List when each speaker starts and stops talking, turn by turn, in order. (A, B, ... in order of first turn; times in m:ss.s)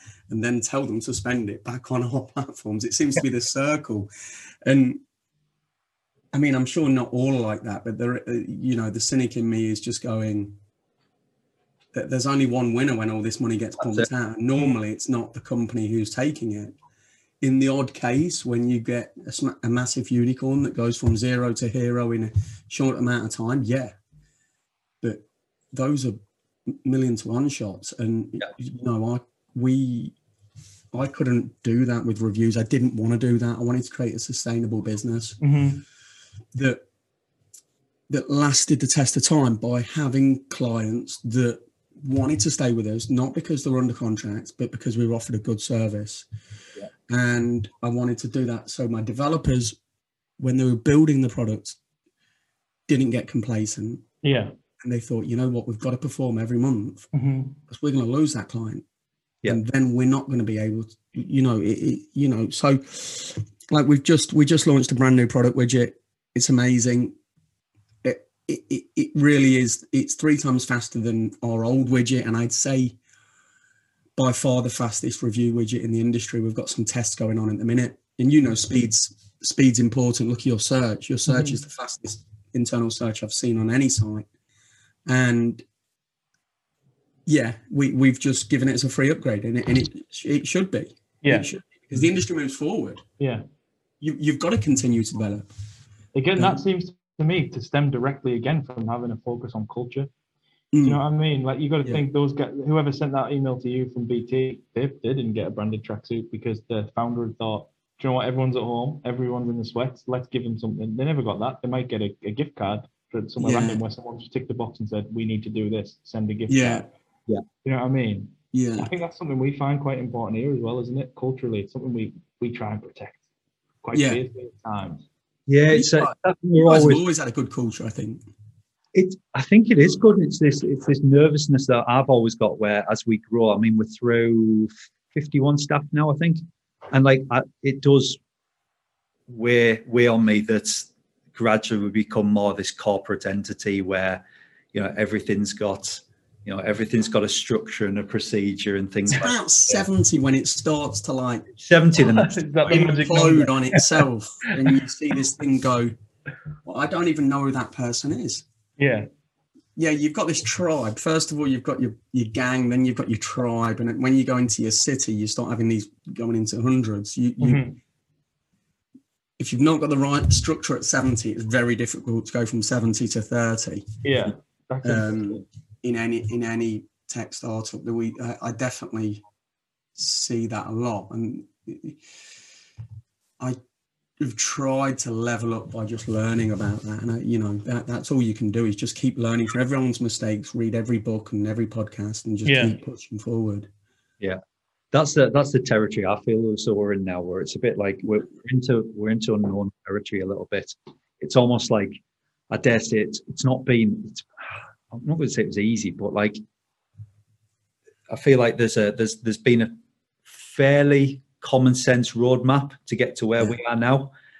0:00.3-0:04.1 A
0:04.6-0:05.0 A
0:06.3-0:10.6 A
0:11.9-0:16.8 A
0:13.8-0:14.1 B
0:17.4-0:24.0 A
0:25.0-0:30.2 A
0:30.9-0:35.4 A
0:35.4-0:35.8 C
0:36.5-0:36.8 A
0:38.1-0:46.3 A
0:47.1-0:49.8 A
0:50.4-0:51.8 A
0:52.9-0:54.0 A
0:54.2-0:54.5 C
0:54.8-0:57.1 A
0:57.1-0:57.6 C
0:57.7-0:58.8 A
0:59.5-1:07.1 A
1:08.0-1:13.0 A
1:14.2-1:24.3 A
1:21.3-1:21.6 C
1:25.1-1:25.6 A
1:27.2-1:33.0 A
1:33.2-1:33.4 C
1:34.0-1:35.5 A
1:36.1-1:40.1 C
1:36.4-1:36.6 A
1:40.7-1:41.0 A
1:40.8-1:56.9 C
1:53.4-1:53.8 A
1:56.5-1:56.9 A
1:57.6-2:03.2 C
1:58.5-1:58.9 A
2:03.8-2:05.1 C
2:03.9-2:04.2 A
2:05.5-2:07.0 B
2:05.7-2:08.2 A
2:08.9-2:16.4 B
2:16.9-2:18.2 B
2:19.3-2:24.2 B
2:24.7-2:29.9 B
2:29.1-2:31.5 A
2:31.6-2:32.4 B
2:32.0-2:34.0 C
2:32.6-2:35.9 A
2:36.6-2:38.4 A
2:38.8-2:39.1 C
2:39.8-2:47.6 A
2:47.4-2:47.8 C
2:49.4-2:53.8 A
2:54.0-2:55.4 C
2:54.8-2:59.2 A
3:00.0-3:02.0 A
3:04.2-3:13.7 A
3:12.4-3:12.8 C
3:14.9-3:22.0 B
3:22.5-3:24.3 B
3:24.9-3:26.4 B
3:28.1-3:29.7 B
3:30.3-3:34.1 B